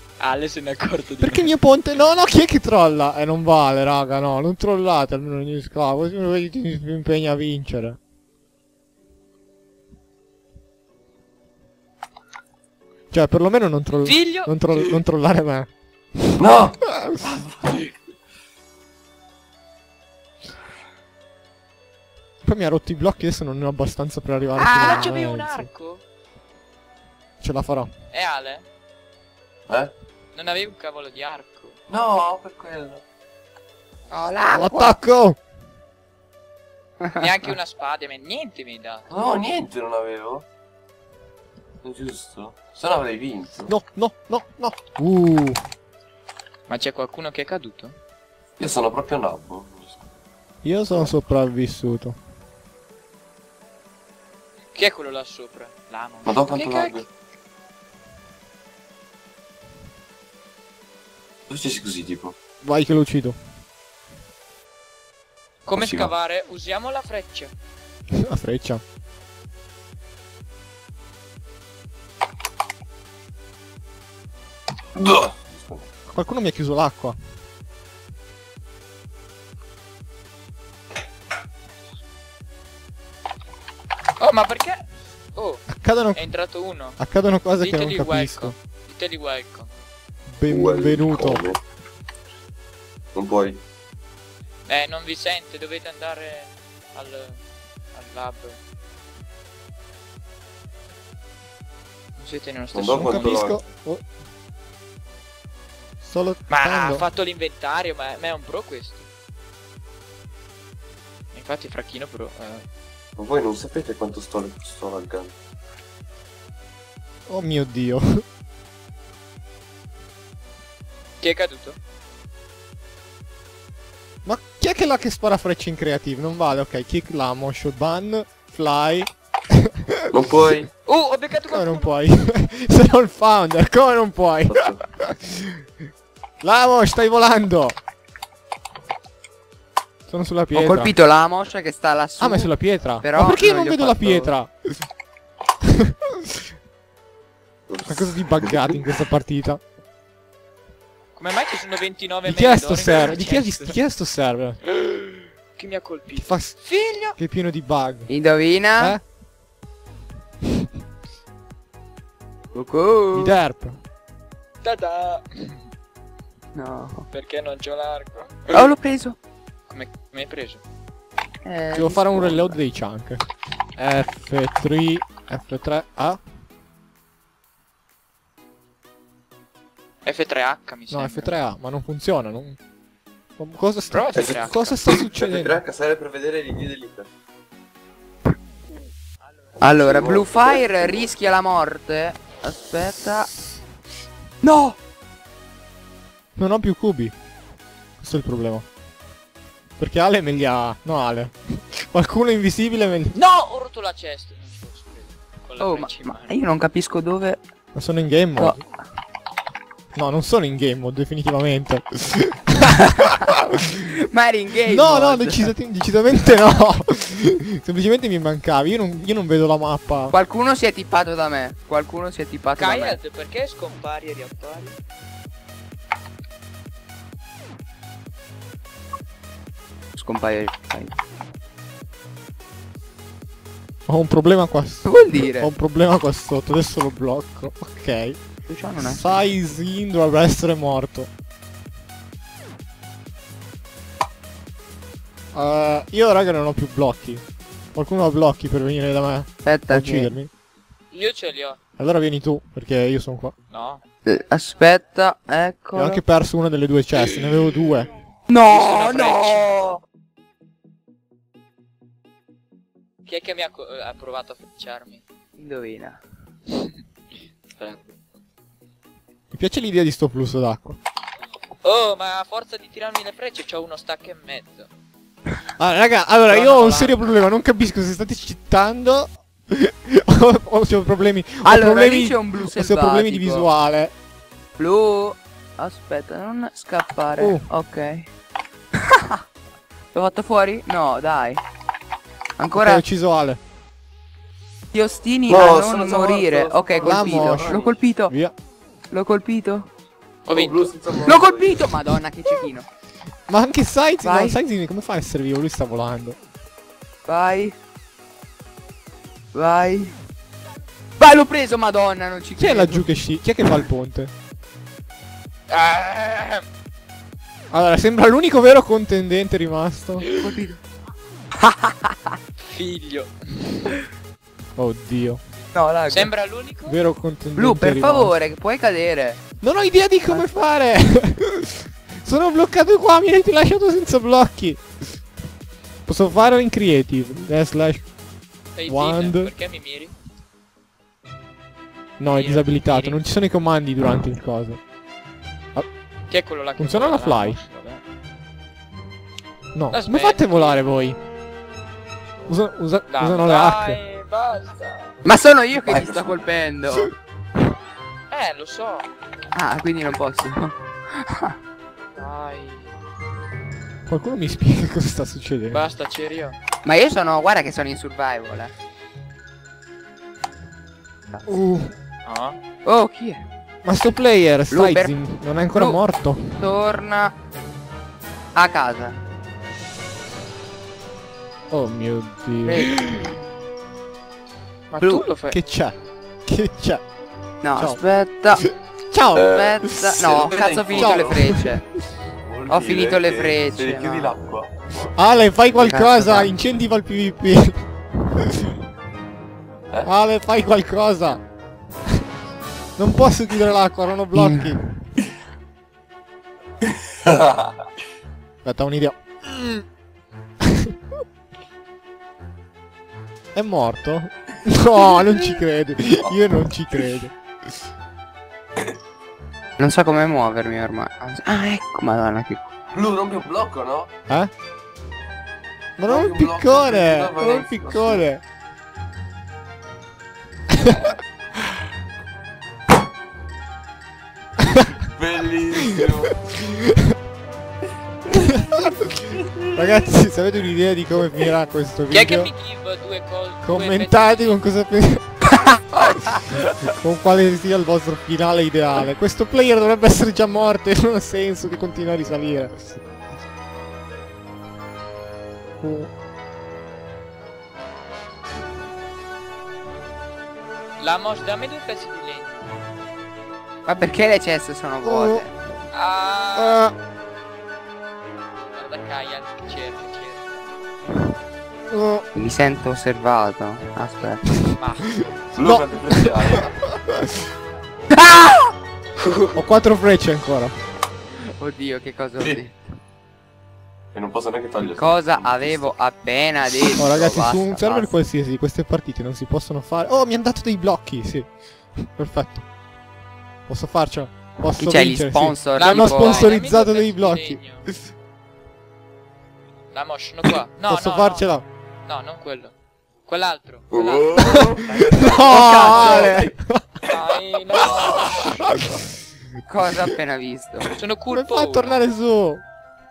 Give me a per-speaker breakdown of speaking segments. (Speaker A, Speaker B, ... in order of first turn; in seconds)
Speaker A: 0.2-1.5, 14.0-14.8, 24.6-26.0, 28.1-28.6, 30.3-31.8, 37.1-39.1, 46.7-47.9, 54.7-57.0, 65.7-67.5, 84.2-87.0, 87.6-89.7, 94.7-97.4, 97.9-98.6, 102.2-103.5, 106.5-109.0, 111.3-112.7, 121.2-121.8, 130.8-131.9, 151.1-153.8, 154.8-157.2, 164.6-165.6, 167.1-168.7, 169.7-170.6, 180.0-181.3, 183.9-184.8, 203.1-206.3, 222.6-224.8, 250.9-251.6, 253.5-253.8, 258.4-259.5, 263.1-265.0, 267.6-267.9, 271.6-274.7, 276.3-277.0, 300.2-300.7, 315.5-316.4, 322.5-323.7, 325.9-326.8, 338.6-339.9, 342.1-343.0, 346.1-347.8, 349.7-350.6, 352.9-354.9, 358.1-358.9, 361.9-362.7, 365.5-366.4, 372.1-372.4, 382.4-383.0, 384.7-385.4, 441.9-444.4, 460.8-462.4, 465.7-466.6, 468.5-470.5, 474.6-474.9, 495.6-497.7, 499.7-501.3, 501.9-502.5, 503.1-505.1, 506.9-508.5, 510.7-511.8
Speaker B: 1.2-8.0, 13.1-16.9, 22.4-25.7, 27.4-27.9, 34.5-35.4, 43.7-45.6, 50.6-52.2, 62.6-63.4, 68.1-68.8, 76.1-77.2, 85.7-86.3, 87.0-88.5, 90.3-91.4, 103.0-104.0, 106.0-107.0, 117.3-118.2, 124.2-130.1, 131.5-135.6, 136.4-137.8, 140.1-140.9, 142.2-144.8, 147.8-149.6, 152.2-154.6, 156.2-158.1, 163.1-163.8, 171.7-173.2, 173.8-176.2, 180.9-182.6, 183.4-185.6, 196.4-197.1, 198.0-198.7, 199.8-203.1, 207.7-208.6, 209.9-213.0, 214.7-220.1, 233.9-238.2, 238.8-241.1, 245.3-247.2, 247.7-250.3, 251.8-253.3, 255.7-257.9, 269.3-270.8, 275.6-283.9, 287.2-287.5, 292.5-293.4, 296.8-298.3, 303.3-306.2, 312.4-314.1, 317.5-320.1, 324.6-325.2, 326.6-328.1, 329.4-334.6, 335.9-337.9, 338.6-339.3, 342.0-344.6, 346.6-347.4, 349.5-351.0, 352.3-353.8, 363.9-365.6, 371.3-371.7, 373.6-376.4, 381.5-382.8, 384.8-386.8, 387.6-387.8, 388.4-389.9, 390.7-391.4, 394.9-398.5, 399.8-401.2, 402.8-404.6, 408.4-409.0, 413.3-417.1, 425.8-428.2, 436.5-436.9, 438.3-438.6, 439.4-442.3, 443.4-445.2, 446.7-452.8, 455.6-455.9, 464.8-465.2, 466.4-466.7, 471.7-472.1, 475.4-476.4, 479.3-480.5, 486.8-492.4, 493.5-497.4, 500.6-501.4, 504.9-506.7, 511.1-512.4
Speaker C: 16.4-17.9, 31.9-33.0, 39.1-40.4, 41.8-43.7, 48.6-50.0, 56.2-57.0, 61.5-62.4, 65.7-66.1, 75.0-75.9, 90.5-91.6, 93.1-93.6, 102.7-103.6, 113.2-115.3, 130.1-130.7, 134.5-134.8, 147.7-148.7, 184.1-187.1, 189.6-191.1, 295.3-297.8, 300.3-301.7, 355.6-356.3, 389.1-391.3, 392.2-394.9, 406.6-407.6, 422.7-423.9, 425.9-428.0, 434.9-436.3, 475.3-476.6, 483.9-485.7, 503.7-506.2, 507.6-508.3
Speaker D: 34.1-35.0, 140.5-144.3, 158.1-159.0, 162.5-163.4, 166.5-167.1, 168.5-169.2, 171.4-172.6, 189.6-193.3, 194.4-194.8, 205.6-207.4, 212.9-215.5, 220.1-223.0, 229.9-230.9, 234.8-235.5, 238.4-239.3, 249.4-250.2, 254.0-256.0, 258.3-259.8, 265.4-266.0, 281.4-283.5, 284.6-288.1, 288.8-289.2, 289.9-291.4, 292.4-292.8, 294.7-298.1, 298.9-299.7, 301.0-302.7, 304.0-304.4, 307.1-307.6, 309.3-310.0, 311.0-312.8, 320.1-320.6, 321.4-322.1, 325.5-326.1, 327.3-329.2, 330.1-330.4, 355.0-356.9, 359.3-361.3, 366.6-368.5, 372.6-373.2, 374.5-375.0, 375.5-375.8, 376.3-377.1, 378.3-379.0, 387.4-388.4, 389.3-391.6, 392.5-394.1, 395.5-396.3, 404.1-404.6, 419.6-422.4, 463.6-465.3, 472.1-474.2, 478.0-478.5, 481.4-482.6, 484.6-487.9, 494.6-496.3, 505.1-506.2, 509.4-510.7